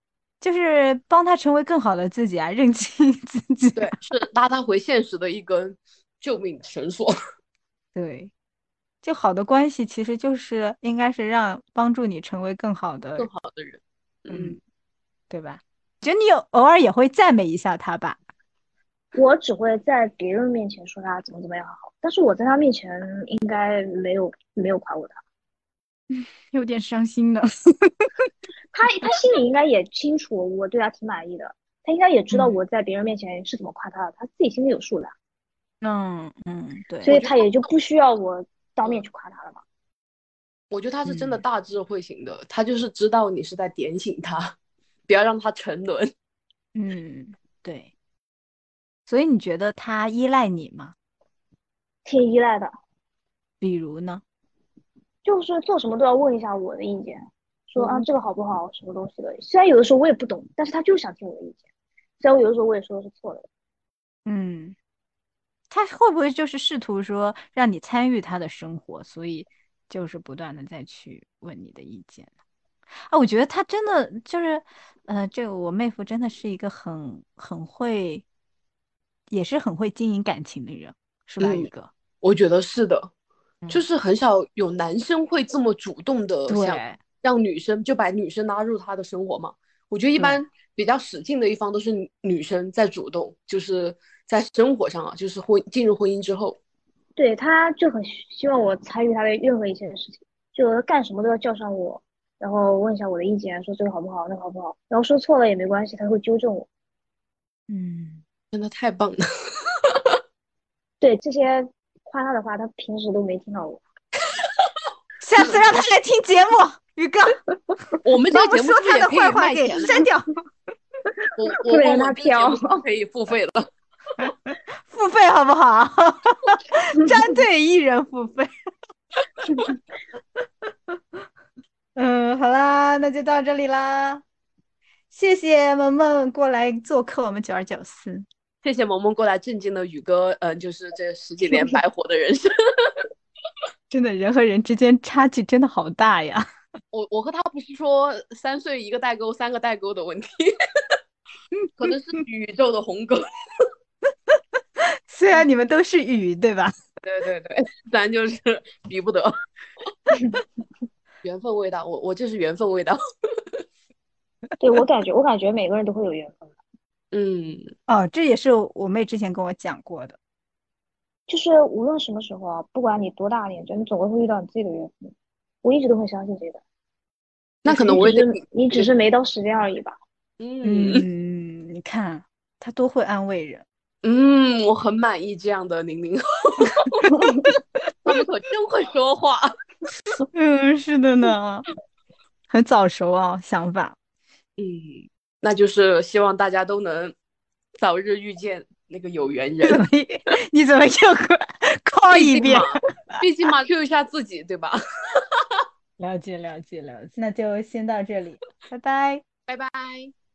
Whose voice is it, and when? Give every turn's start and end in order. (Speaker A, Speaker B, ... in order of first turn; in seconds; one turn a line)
Speaker A: 0.4-4.0
Speaker B: 3.8-7.1
Speaker A: 8.0-8.3
Speaker A: 9.0-13.3
Speaker B: 13.2-14.6
Speaker A: 14.3-14.6
Speaker A: 15.3-18.2
Speaker C: 19.1-25.2
Speaker A: 26.1-28.1
Speaker C: 28.7-35.1
Speaker A: 35.8-37.2
Speaker C: 37.0-39.6
Speaker B: 37.1-37.7
Speaker B: 40.7-44.6
Speaker A: 41.1-41.4
Speaker B: 45.1-46.1
Speaker A: 46.8-47.9
Speaker A: 49.1-51.0
Speaker C: 52.1-52.7
Speaker A: 53.6-54.2
Speaker C: 55.2-61.6
Speaker A: 57.8-58.1
Speaker C: 62.2-63.5
Speaker A: 64.3-64.8
Speaker A: 65.7-72.3
Speaker A: 73.1-78.3
Speaker A: 79.3-81.9
Speaker B: 81.4-81.7
Speaker B: 82.2-83.1
Speaker B: 83.7-96.6
Speaker A: 86.5-87.0
Speaker A: 90.2-90.5
Speaker C: 97.2-106.7
Speaker A: 107.7-108.2
Speaker B: 108.5-109.2
Speaker B: 109.8-110.2
Speaker C: 111.0-113.8
Speaker A: 115.2-117.4
Speaker B: 118.0-120.1
Speaker A: 118.3-120.3
Speaker C: 121.2-122.8
Speaker B: 121.4-123.7
Speaker A: 124.2-128.5
Speaker A: 130.7-131.0
Speaker A: 132.0-134.2
Speaker A: 135.1-138.3
Speaker B: 138.6-143.1
Speaker A: 143.9-146.5
Speaker B: 146.9-150.5
Speaker A: 151.6-151.9
Speaker B: 151.8-153.2
Speaker A: 154.3-156.7
Speaker B: 157.0-159.3
Speaker B: 161.2-163.0
Speaker C: 164.6-166.6
Speaker B: 167.1-167.7
Speaker A: 167.9-170.2
Speaker C: 171.3-176.6
Speaker B: 177.7-178.9
Speaker C: 177.7-180.0
Speaker B: 180.4-181.1
Speaker A: 180.6-183.7
Speaker B: 184.0-187.1
Speaker C: 187.0-187.5
Speaker A: 187.2-187.5
Speaker B: 188.1-189.5
Speaker A: 190.3-191.6
Speaker A: 192.5-194.0
Speaker B: 194.6-197.2
Speaker B: 197.8-199.8
Speaker A: 199.7-203.2
Speaker B: 202.1-205.6
Speaker A: 206.0-209.2
Speaker B: 209.5-210.1